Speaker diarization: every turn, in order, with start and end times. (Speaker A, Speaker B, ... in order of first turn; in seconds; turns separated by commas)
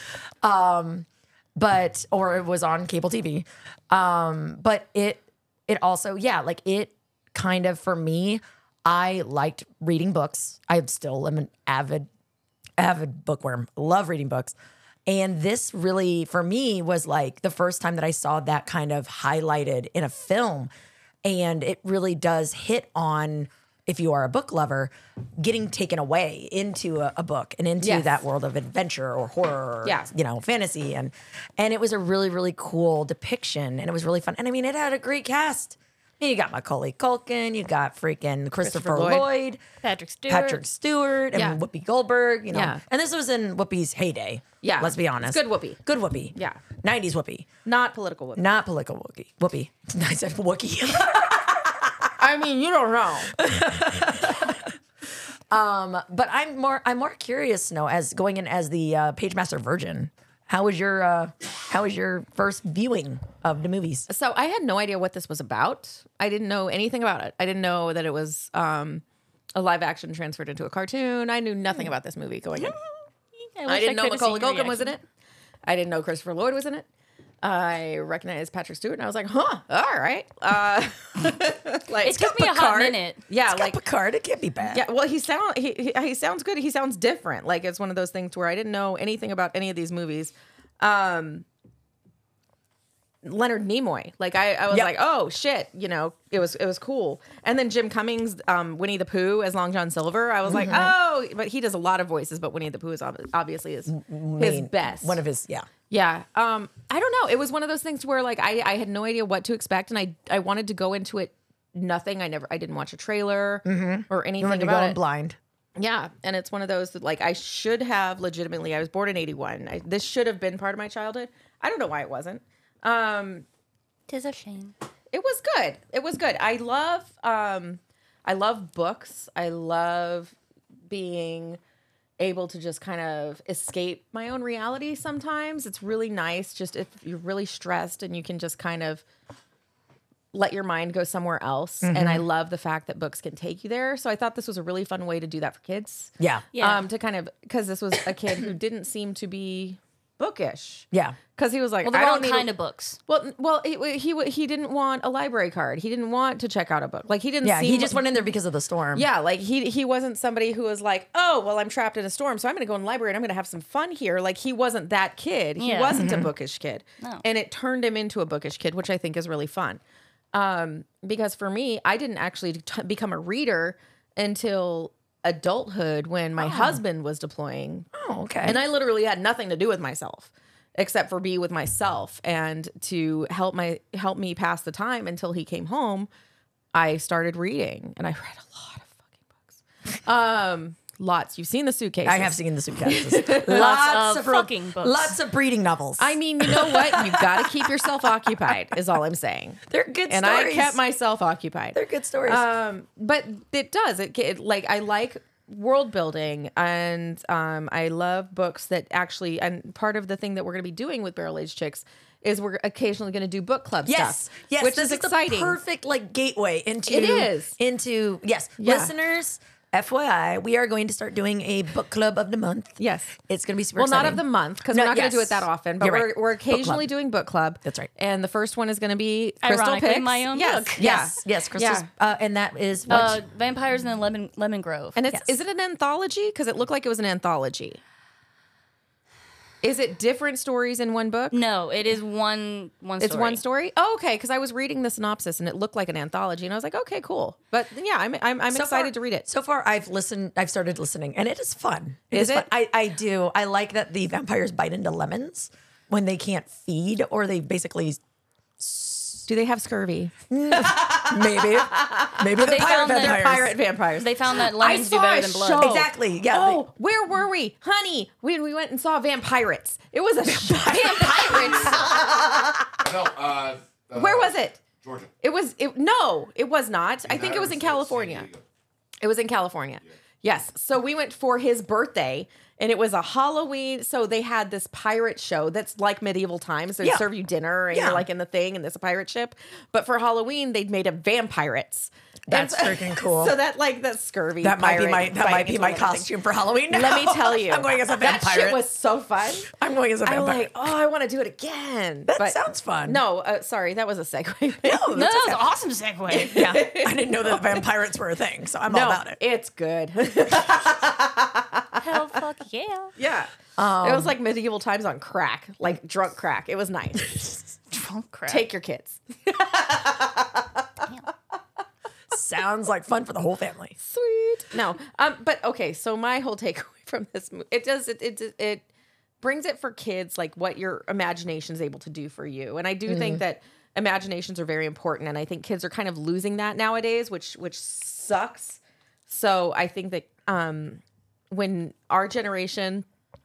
Speaker A: 0.4-12.1, Speaker A: 12.8-14.5, Speaker A: 15.1-20.7, Speaker A: 21.2-39.6, Speaker B: 27.8-28.1, Speaker B: 29.8-30.1, Speaker B: 38.6-39.3, Speaker C: 39.8-40.6, Speaker A: 40.3-47.5, Speaker B: 41.3-41.6, Speaker B: 42.5-42.8, Speaker B: 44.6-45.8, Speaker B: 46.3-46.6, Speaker B: 47.6-48.4, Speaker A: 48.4-51.9, Speaker B: 52.2-53.3, Speaker A: 53.3-54.7, Speaker A: 55.5-64.1, Speaker B: 64.1-69.0, Speaker B: 69.5-72.7, Speaker C: 73.4-74.9, Speaker B: 73.7-75.0, Speaker B: 75.6-76.8, Speaker B: 77.4-83.8, Speaker C: 82.0-83.2, Speaker A: 83.4-84.8, Speaker B: 84.7-91.4, Speaker B: 93.2-105.2, Speaker A: 100.5-101.0, Speaker A: 103.9-105.7, Speaker B: 105.9-115.0, Speaker A: 113.6-115.4, Speaker B: 115.8-123.4, Speaker C: 124.1-124.7, Speaker B: 125.1-130.3, Speaker B: 130.9-131.6, Speaker B: 132.2-139.0, Speaker B: 140.3-152.5, Speaker A: 141.8-142.2, Speaker A: 146.2-146.4, Speaker C: 146.5-146.8, Speaker A: 150.9-151.2, Speaker C: 151.8-153.0, Speaker B: 153.1-158.1, Speaker A: 157.4-159.1, Speaker B: 158.9-169.8, Speaker C: 165.6-166.0, Speaker A: 165.9-166.3, Speaker B: 170.3-177.9, Speaker A: 176.4-176.8, Speaker A: 177.9-178.6, Speaker B: 178.4-186.1, Speaker B: 186.7-193.7, Speaker A: 192.0-197.5, Speaker C: 193.5-195.2, Speaker B: 196.0-215.6, Speaker A: 199.7-200.8, Speaker A: 201.7-202.5, Speaker A: 213.8-226.9, Speaker B: 216.9-217.6, Speaker B: 218.6-218.9, Speaker B: 222.8-223.2, Speaker B: 223.7-231.9, Speaker A: 227.6-227.9, Speaker C: 229.4-230.9, Speaker A: 230.8-233.2, Speaker C: 232.9-235.0, Speaker B: 234.9-237.8, Speaker B: 239.6-241.4, Speaker C: 241.3-243.4, Speaker B: 243.0-249.2, Speaker A: 248.5-258.0, Speaker B: 252.1-252.5, Speaker A: 258.6-259.2, Speaker B: 259.3-272.1, Speaker A: 260.3-263.5, Speaker C: 262.4-263.3, Speaker C: 263.9-265.9, Speaker A: 265.5-266.7, Speaker A: 270.2-272.0, Speaker C: 271.0-271.6, Speaker D: 271.7-272.1, Speaker D: 272.8-275.1, Speaker B: 273.9-274.6, Speaker B: 275.2-278.3, Speaker D: 277.0-278.4, Speaker B: 279.0-296.1, Speaker A: 286.8-287.1, Speaker A: 287.7-288.1, Speaker A: 292.3-293.4, Speaker A: 294.4-298.6, Speaker B: 296.7-299.5, Speaker A: 299.4-300.6, Speaker B: 300.0-304.9, Speaker A: 302.1-303.0, Speaker A: 304.6-305.5, Speaker C: 304.9-306.4, Speaker B: 306.1-307.6, Speaker A: 306.1-309.2, Speaker B: 308.7-311.8, Speaker C: 311.8-312.9, Speaker B: 313.0-317.4, Speaker A: 313.6-314.1, Speaker C: 317.7-318.4, Speaker B: 318.3-320.4, Speaker A: 322.1-323.8, Speaker B: 323.8-328.7, Speaker B: 329.2-342.9, Speaker A: 332.9-333.2